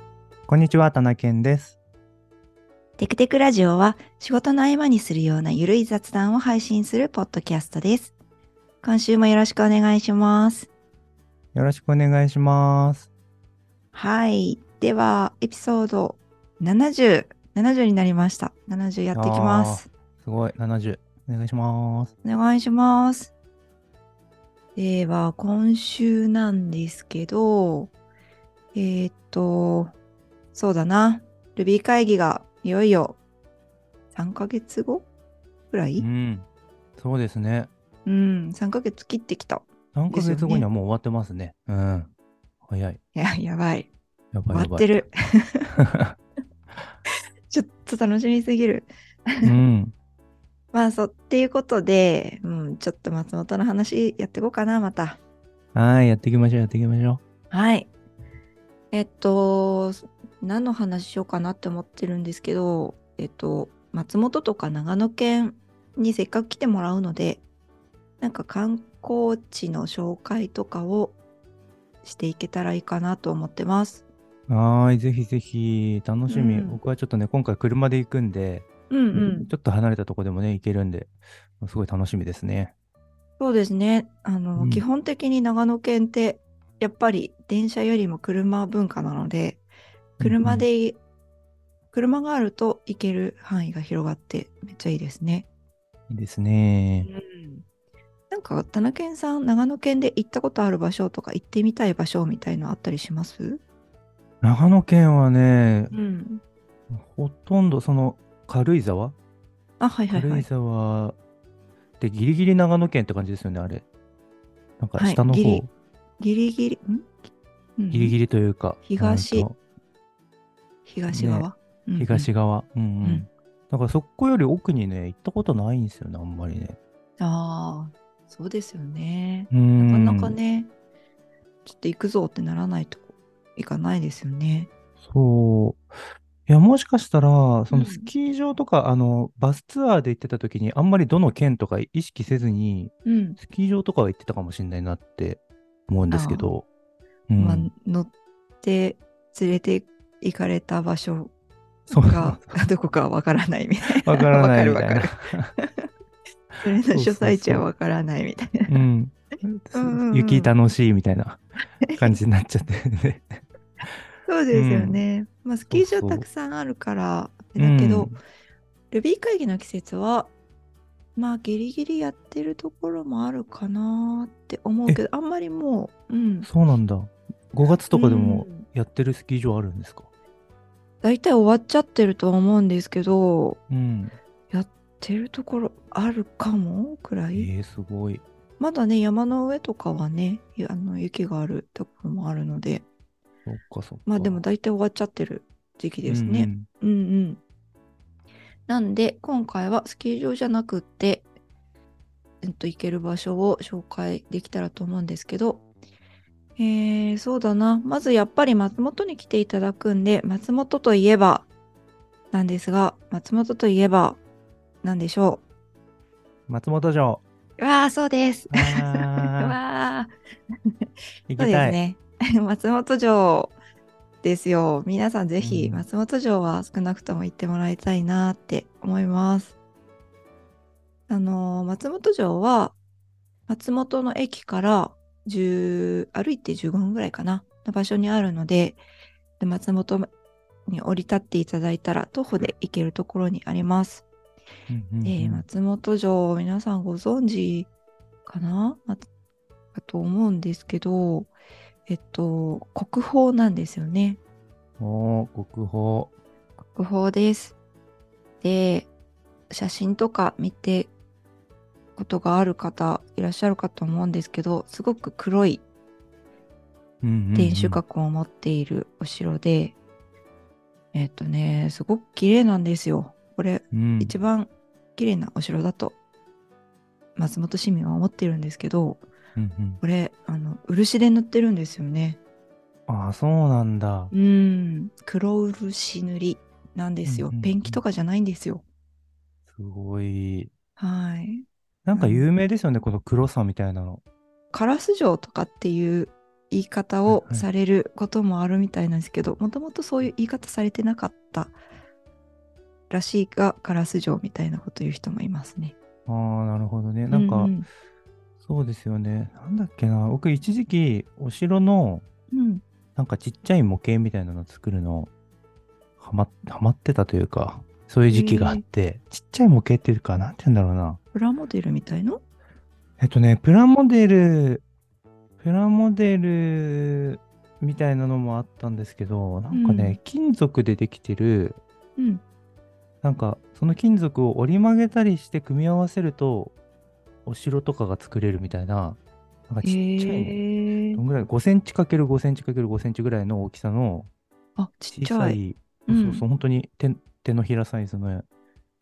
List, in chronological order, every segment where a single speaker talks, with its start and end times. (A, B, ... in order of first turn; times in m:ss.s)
0:00.5-0:01.8 A
0:03.0-0:08.1 B
0:08.8-0:10.7 B
0:11.5-0:13.1 A
0:13.9-0:19.9 B
0:19.1-0:22.1 A
0:22.2-0:23.3 B
0:24.8-0:27.9 B
0:28.7-0:29.9 B
0:30.5-0:33.2 B
0:34.1-0:35.1 B
0:35.7-0:36.0 B
0:36.0-0:36.4 A
0:37.0-0:37.7 A
0:38.0-0:40.7 B
0:39.9-0:42.1 A
0:42.6-0:43.0 A
0:43.1-0:43.9 B
0:44.3-0:44.9 A
0:44.5-0:45.7 B
0:45.8-0:46.2 A
0:47.5-0:49.5 B
0:49.4-0:49.9 A
0:50.7-0:55.2 B
0:55.7-0:57.2 A
0:57.5-0:57.9 B
0:58.9-1:07.4 B
1:08.2-1:11.2 B
1:12.0-1:14.0 B
1:14.5-1:22.7 A
1:16.3-1:16.8 B
1:18.9-1:19.5 B
1:23.4-1:29.6 B
1:24.6-1:24.8 A
1:30.2-1:30.6 A
1:30.2-1:31.0 B
1:31.9-1:35.4 B
1:36.1-1:37.1 A
1:37.0-1:37.6 B
1:38.3-1:43.6 B
1:44.4-1:45.9 A
1:45.9-1:46.4 B
1:46.9-1:49.2 A
1:49.8-1:50.5 B
1:50.1-1:51.2 A
1:52.0-1:53.8 A
1:54.8-1:55.7 A
1:55.0-1:55.6 B
1:56.2-1:57.2 B
1:57.8-1:58.2 B
1:57.9-1:59.5 A
1:58.8-1:59.5 B
2:00.8-2:02.3 B
2:01.1-2:06.8 A
2:07.2-2:10.7 B
2:09.5-2:10.3 A
2:11.6-2:14.7 B
2:15.0-2:15.8 A
2:16.5-2:26.6 A
2:17.7-2:18.1 B
2:23.0-2:23.4 B
2:26.1-2:26.5 B
2:27.3-2:27.7 A
2:27.4-2:28.1 B
2:28.6-2:31.3 B
2:31.9-2:32.6 A
2:32.0-2:35.9 B
2:34.0-2:35.5 A
2:36.6-2:38.8 B
2:36.9-2:37.6 A
2:38.7-2:44.0 A
2:39.7-2:40.5 B
2:41.8-2:42.1 B
2:44.3-2:48.1 B
2:44.5-2:45.0 A
2:45.7-2:46.2 A
2:47.6-2:48.2 A
2:48.9-2:50.3 B
2:51.2-2:56.5 B
2:56.4-3:00.1 A
2:57.9-2:58.6 B
3:01.0-3:03.6 B
3:03.7-3:04.2 A
3:04.5-3:07.5 B
3:07.3-3:08.2 A
3:08.6-3:12.8 B
3:13.4-3:14.4 A
3:14.0-3:17.4 B
3:16.0-3:16.7 A
3:18.7-3:21.3 B
3:22.4-3:25.6 B
3:26.6-3:31.5 B
3:32.3-3:34.2 B
3:34.8-3:35.4 B
3:36.5-3:37.2 A
3:37.6-3:40.1 B
3:38.5-3:39.6 A
3:41.3-3:41.8 A
3:41.4-3:43.6 B
3:44.2-3:49.5 B
3:45.4-3:45.8 A
3:51.1-3:52.8 B
3:53.5-3:58.8 B
3:59.4-4:00.1 B
4:00.7-4:04.0 B
4:04.7-4:05.4 A
4:05.0-4:07.7 B
4:08.2-4:09.1 B
4:09.7-4:11.3 B
4:11.9-4:14.2 B
4:14.8-4:16.1 A
4:16.6-4:17.6 B
4:18.4-4:18.9 B
4:19.5-4:20.9 B
4:22.0-4:25.6 B
4:27.0-4:27.8 A
4:27.3-4:29.7 B
4:30.9-4:36.0 B
4:33.7-4:34.1 A
4:37.2-4:39.0 B
4:39.4-4:39.8 A
4:39.8-4:42.2 B
4:42.9-4:44.1 A
4:44.1-4:48.6 B
4:47.0-4:47.8 A
4:49.5-4:50.5 A
4:50.8-4:52.3 B
4:51.8-4:54.0 A
4:54.5-5:01.6 B
4:57.1-4:57.4 A
5:02.9-5:05.7 B
5:06.1-5:07.6 A
5:07.1-5:07.7 B
5:08.4-5:12.0 A
5:12.3-5:12.6 B
5:13.0-5:15.1 A
5:16.0-5:21.0 A
5:18.1-5:18.6 B
5:21.1-5:22.2 B
5:23.0-5:24.6 A
5:25.4-5:31.6 A
5:29.5-5:30.0 B
5:32.0-5:32.2 B
5:33.0-5:36.5 A
5:37.2-5:40.4 A
5:39.6-5:41.0 B
5:40.9-5:44.1 A
5:44.6-5:46.2 B
5:44.9-5:48.2 A